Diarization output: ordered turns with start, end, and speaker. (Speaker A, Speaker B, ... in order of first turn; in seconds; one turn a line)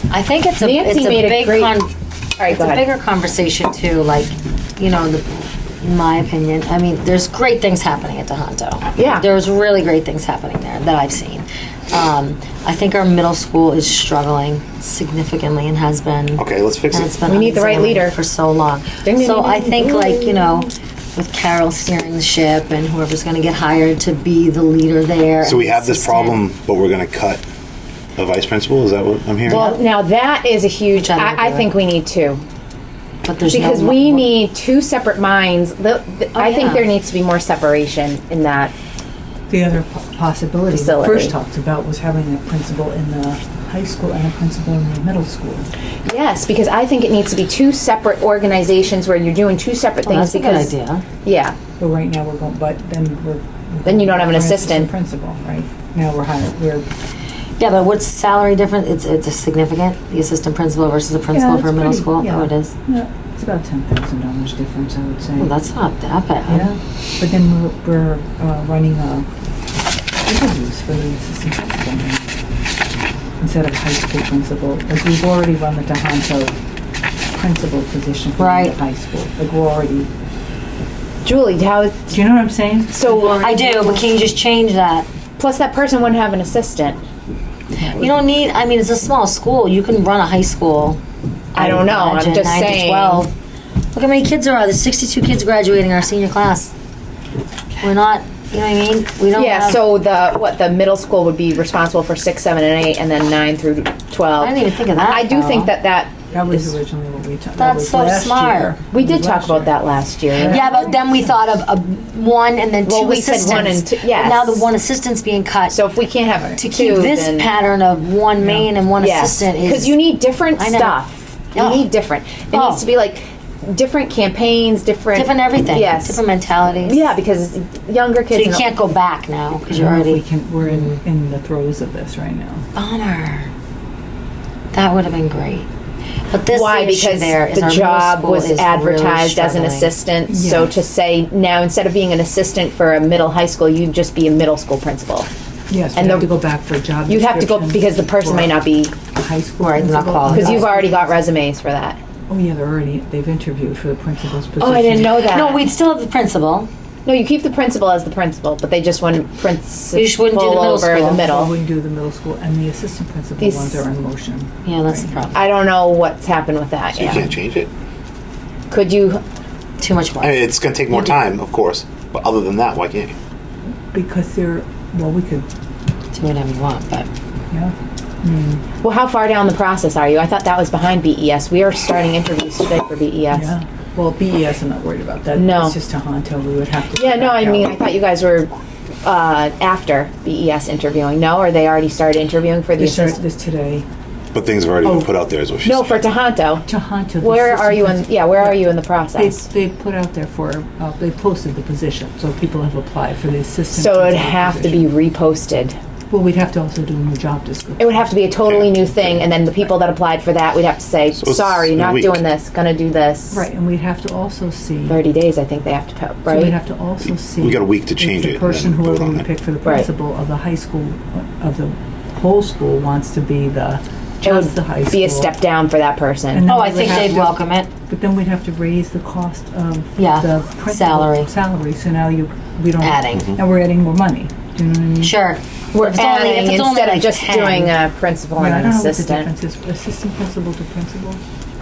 Speaker A: 0.1-1.9
Speaker B: 0.6-1.7
Speaker B: 2.4-2.9
Speaker A: 2.5-26.4
Speaker B: 8.9-9.3
Speaker C: 16.4-17.1
Speaker B: 17.2-18.2
Speaker B: 19.0-20.7
Speaker C: 25.4-27.4
Speaker C: 28.2-29.7
Speaker A: 29.5-29.8
Speaker B: 29.5-32.4
Speaker A: 30.9-31.7
Speaker A: 33.2-34.4
Speaker B: 33.5-38.7
Speaker A: 36.4-36.9
Speaker D: 39.5-45.7
Speaker B: 40.7-41.4
Speaker B: 46.0-50.7
Speaker A: 50.0-51.0
Speaker B: 51.2-51.6
Speaker D: 51.8-56.9
Speaker B: 53.9-54.9
Speaker A: 57.6-62.7
Speaker D: 61.3-65.5
Speaker A: 65.4-66.7
Speaker D: 66.5-69.3
Speaker D: 70.2-72.3
Speaker D: 73.4-76.5
Speaker D: 77.3-80.1
Speaker A: 78.4-78.8
Speaker B: 81.2-82.2
Speaker D: 82.1-83.9
Speaker B: 82.9-83.7
Speaker A: 83.3-85.1
Speaker B: 85.4-87.0
Speaker D: 87.8-88.2
Speaker A: 87.9-91.0
Speaker B: 91.5-93.3
Speaker A: 91.5-93.3
Speaker A: 93.9-96.7
Speaker A: 97.8-99.8
Speaker B: 99.3-106.2
Speaker A: 104.4-105.7
Speaker D: 106.3-111.2
Speaker A: 107.6-108.8
Speaker B: 108.9-110.7
Speaker A: 110.4-115.8
Speaker B: 112.8-114.7
Speaker B: 115.7-117.5
Speaker A: 116.6-121.0
Speaker D: 118.4-118.7
Speaker B: 119.0-126.2
Speaker A: 121.5-121.9
Speaker A: 122.5-122.9
Speaker A: 125.1-127.0
Speaker B: 126.8-128.7
Speaker A: 128.3-130.9
Speaker D: 129.7-132.7
Speaker A: 132.8-133.5
Speaker A: 134.7-135.7
Speaker A: 136.3-139.9
Speaker B: 136.5-145.3
Speaker D: 140.3-140.7
Speaker D: 145.7-151.0
Speaker B: 145.9-146.3
Speaker B: 147.1-149.0
Speaker A: 149.6-150.7
Speaker B: 150.3-152.0
Speaker D: 152.3-155.3
Speaker B: 154.6-155.6
Speaker A: 155.1-156.7
Speaker B: 157.1-161.5
Speaker A: 159.9-161.3
Speaker D: 161.1-165.1
Speaker B: 163.4-163.8
Speaker A: 164.7-165.5
Speaker B: 165.3-167.3
Speaker C: 167.0-167.7
Speaker B: 168.7-169.2
Speaker A: 169.8-170.5
Speaker C: 170.2-173.2
Speaker D: 173.9-175.5
Speaker A: 176.1-177.1
Speaker D: 177.5-178.6
Speaker B: 178.8-183.5
Speaker D: 183.3-187.8
Speaker B: 185.4-185.8
Speaker B: 186.9-188.5
Speaker B: 189.0-193.2
Speaker D: 192.8-193.9
Speaker C: 194.3-196.0
Speaker D: 194.8-195.1
Speaker B: 195.6-196.6
Speaker D: 196.7-204.9
Speaker B: 197.2-199.5
Speaker B: 203.7-205.8
Speaker D: 206.1-208.2
Speaker B: 207.8-213.4
Speaker C: 211.2-212.2
Speaker D: 213.3-215.0
Speaker B: 214.9-216.6
Speaker D: 216.2-225.3
Speaker C: 217.4-219.3
Speaker B: 224.2-226.5
Speaker D: 226.3-235.2
Speaker A: 226.5-227.7
Speaker A: 230.0-231.3
Speaker A: 232.8-233.4
Speaker A: 235.0-237.7
Speaker B: 235.7-239.3
Speaker D: 238.4-241.2